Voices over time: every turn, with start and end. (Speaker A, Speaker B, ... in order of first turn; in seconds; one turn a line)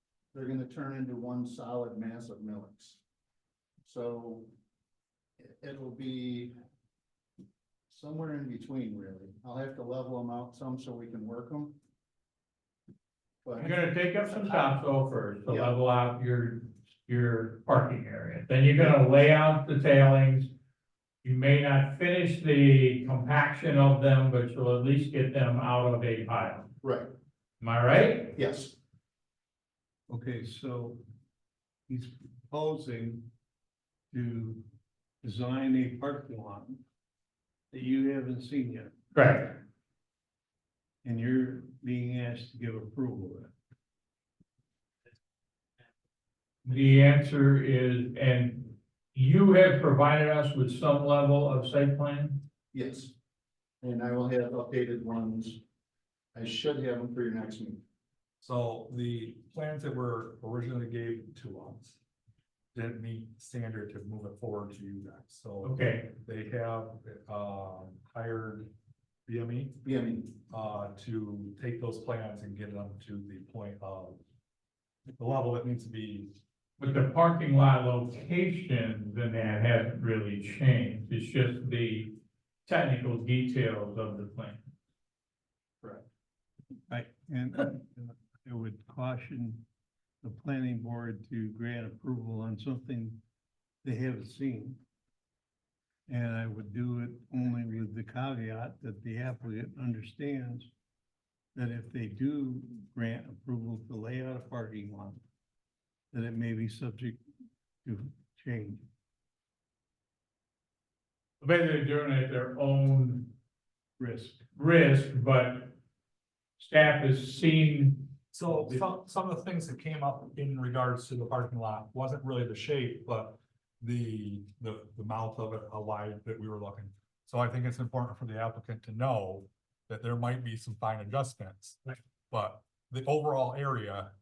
Speaker A: 0.3-3.0
Speaker A: 3.8-4.5
Speaker A: 5.4-6.5
Speaker A: 7.9-11.8
Speaker A: 13.4-14.8
Speaker B: 13.6-20.5
Speaker A: 15.5-15.8
Speaker B: 21.2-26.7
Speaker A: 26.8-27.1
Speaker B: 27.6-28.4
Speaker A: 28.4-28.8
Speaker C: 30.1-31.1
Speaker C: 31.9-33.3
Speaker C: 34.1-34.6
Speaker C: 35.2-36.8
Speaker C: 37.7-39.0
Speaker B: 39.1-39.6
Speaker C: 41.0-43.5
Speaker B: 46.6-52.4
Speaker A: 52.7-53.1
Speaker A: 53.8-55.6
Speaker A: 56.3-57.8
Speaker D: 58.4-62.0
Speaker D: 62.7-68.7
Speaker B: 65.6-66.1
Speaker D: 69.3-69.8
Speaker A: 69.8-70.3
Speaker D: 70.3-74.2
Speaker D: 75.2-76.4
Speaker B: 76.8-84.7
Speaker C: 86.9-89.7
Speaker C: 90.2-93.2
Speaker C: 93.8-94.8
Speaker C: 96.1-100.7
Speaker C: 101.5-105.2
Speaker C: 106.1-107.2
Speaker C: 107.8-108.9
Speaker B: 111.4-113.3
Speaker C: 114.0-114.4
Speaker B: 114.5-115.7
Speaker B: 116.6-118.1
Speaker D: 118.3-134.1